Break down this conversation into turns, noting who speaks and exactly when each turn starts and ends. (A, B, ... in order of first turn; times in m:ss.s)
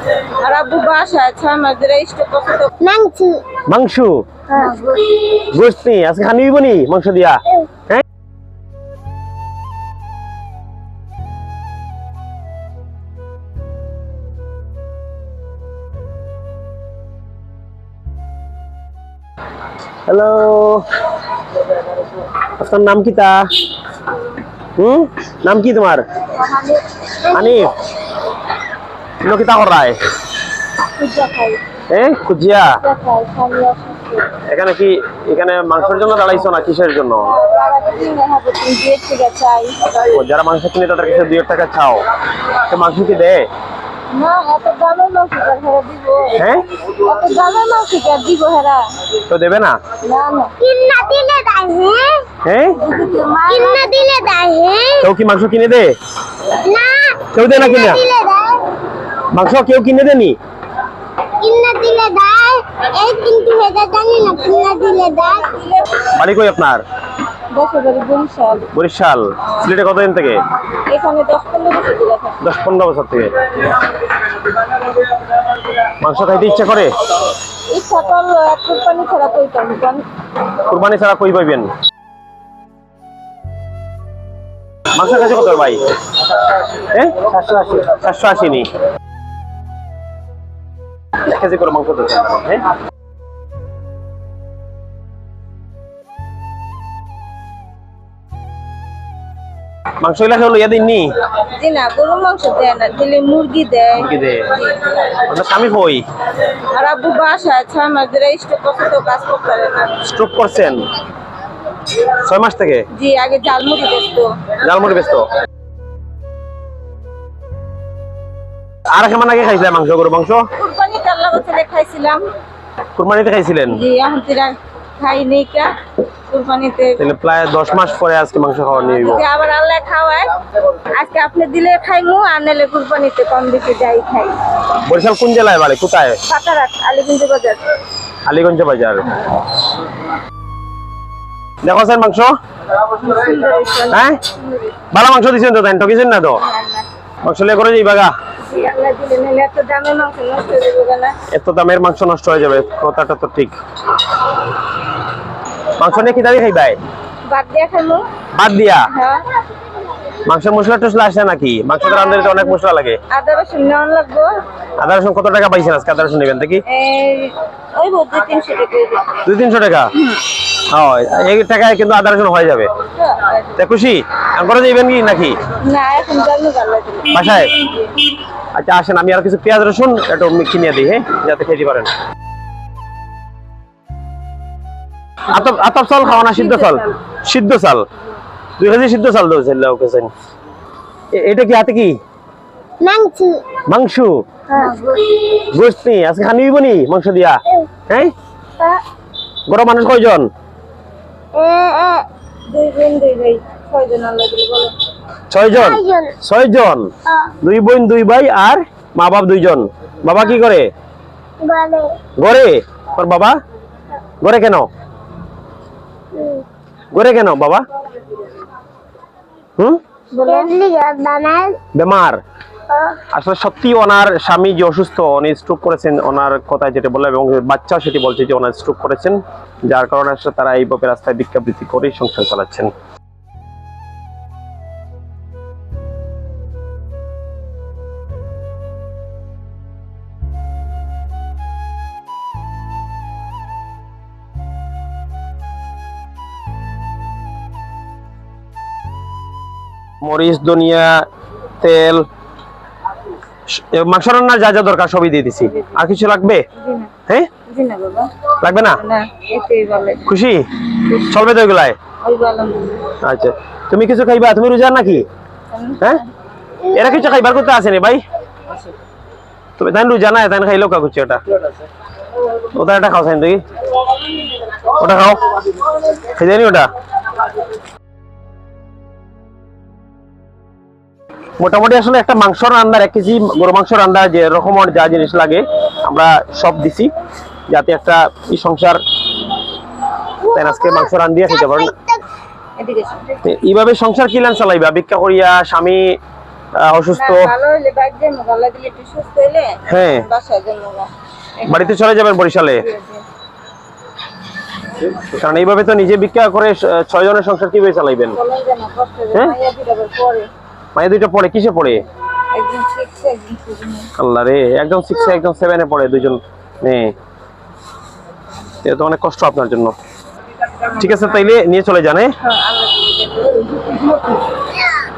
0:00.3-0:02.7 A
0:02.8-0:03.4 B
0:03.7-0:04.2 C
0:04.5-0:04.8 B
0:04.5-0:05.2 A
0:05.3-0:08.0 C
0:20.1-0:20.8 C
0:22.6-0:23.5 C
0:24.8-0:26.0 C
0:26.3-0:27.7 A
0:27.3-0:27.7 C
0:29.2-0:30.0 C
0:31.0-0:31.6 A
0:31.9-0:32.8 C
0:32.8-0:34.3 A
0:34.4-0:37.3 C
0:37.2-0:39.9 A
0:40.0-0:42.0 C
0:42.7-0:43.5 C
0:44.1-0:48.9 A
0:46.3-0:46.6 C
0:49.3-0:49.8 C
0:50.0-0:50.5 A
0:50.6-0:52.2 B
0:52.4-0:52.8 C
0:52.8-0:54.1 A
0:53.5-0:55.1 B
0:55.0-0:55.9 C
0:56.6-0:58.7 B
0:57.3-0:58.0 C
0:59.3-1:00.4 C
1:01.4-1:05.6 B
1:05.5-1:05.9 A
1:06.1-1:06.8 C
1:07.5-1:08.7 A
1:08.7-1:10.4 C
1:10.8-1:12.4 A
1:12.4-1:13.7 C
1:16.0-1:17.0 C
1:17.7-1:20.0 A
1:20.7-1:21.7 C
1:24.9-1:25.8 C
1:26.6-1:28.7 C
1:31.2-1:32.6 C
1:40.0-1:41.1 C
1:41.4-1:44.9 A
1:43.9-1:46.0 C
1:46.7-1:50.0 A
1:50.0-1:50.8 C
1:52.2-1:52.9 C
1:52.9-1:54.4 A
1:54.6-1:55.3 C
1:58.9-2:00.5 C
2:00.6-2:02.2 A
2:02.9-2:03.8 C
2:03.7-2:05.7 A
2:06.3-2:07.0 A
2:07.0-2:09.2 C
2:08.7-2:14.4 A
2:14.8-2:16.2 C
2:16.3-2:17.8 A
2:18.2-2:19.1 C
2:21.6-2:22.3 C
2:22.8-2:24.8 A
2:23.9-2:24.2 C
2:24.9-2:26.4 C
2:26.4-2:26.9 A
2:27.2-2:28.1 C
2:28.4-2:31.2 A
2:31.3-2:33.6 C
2:35.8-2:36.8 C
2:37.2-2:38.1 A
2:38.3-2:38.9 C
2:38.9-2:39.3 A
2:40.2-2:43.0 C
2:41.8-2:42.6 A
2:43.1-2:44.3 A
2:44.8-2:46.6 C
2:46.7-2:49.2 A
2:49.2-2:50.0 C
2:50.7-2:52.7 C
2:53.0-2:53.5 A
2:53.6-2:55.4 C
2:55.6-2:57.9 A
2:57.1-2:57.6 C
2:58.5-3:01.9 C
3:05.3-3:07.9 C
3:06.0-3:06.9 A
3:08.6-3:10.1 C
3:11.1-3:12.0 C
3:12.8-3:13.4 B
3:13.7-3:14.2 C
3:14.5-3:15.2 A
3:15.3-3:18.1 C
3:19.5-3:20.3 C
3:21.3-3:22.1 B
3:22.5-3:24.7 A
3:25.3-3:26.9 C
3:25.5-3:26.2 B
3:27.4-3:30.7 C
3:31.4-3:32.0 B
3:32.2-3:33.3 C
3:34.2-3:34.7 C
3:36.2-3:36.4 B
3:36.9-3:37.6 C
3:40.1-3:40.5 A
3:40.2-3:41.6 B
3:41.8-3:42.2 C
3:43.1-3:52.7 C
4:10.0-4:11.1 C
4:11.6-4:12.1 C
4:13.5-4:16.4 C
4:15.5-4:15.8 A
4:16.6-4:16.9 A
4:17.4-4:18.1 A
4:18.4-4:18.8 C
4:18.8-4:20.1 A
4:20.0-4:21.8 C
4:22.0-4:22.9 A
4:23.0-4:25.0 C
4:25.5-4:26.0 A
4:26.7-4:28.0 C
4:29.6-4:31.2 C
4:32.5-4:33.4 C
4:34.7-4:35.4 C
4:35.9-4:36.7 C
4:41.4-4:46.9 C
4:47.5-4:48.8 C
4:50.3-4:51.7 C
4:51.3-4:52.0 B
4:52.6-4:53.2 A
4:53.2-4:55.9 C
4:56.6-4:57.3 C
4:56.9-5:01.8 A
4:59.7-5:00.1 C
5:01.4-5:02.7 C
5:02.6-5:03.0 A
5:04.8-5:08.2 C
5:08.2-5:10.3 A
5:10.8-5:11.8 C
5:12.3-5:13.9 A
5:14.0-5:16.9 C
5:18.6-5:19.8 C
5:20.7-5:22.1 C
5:22.2-5:24.4 A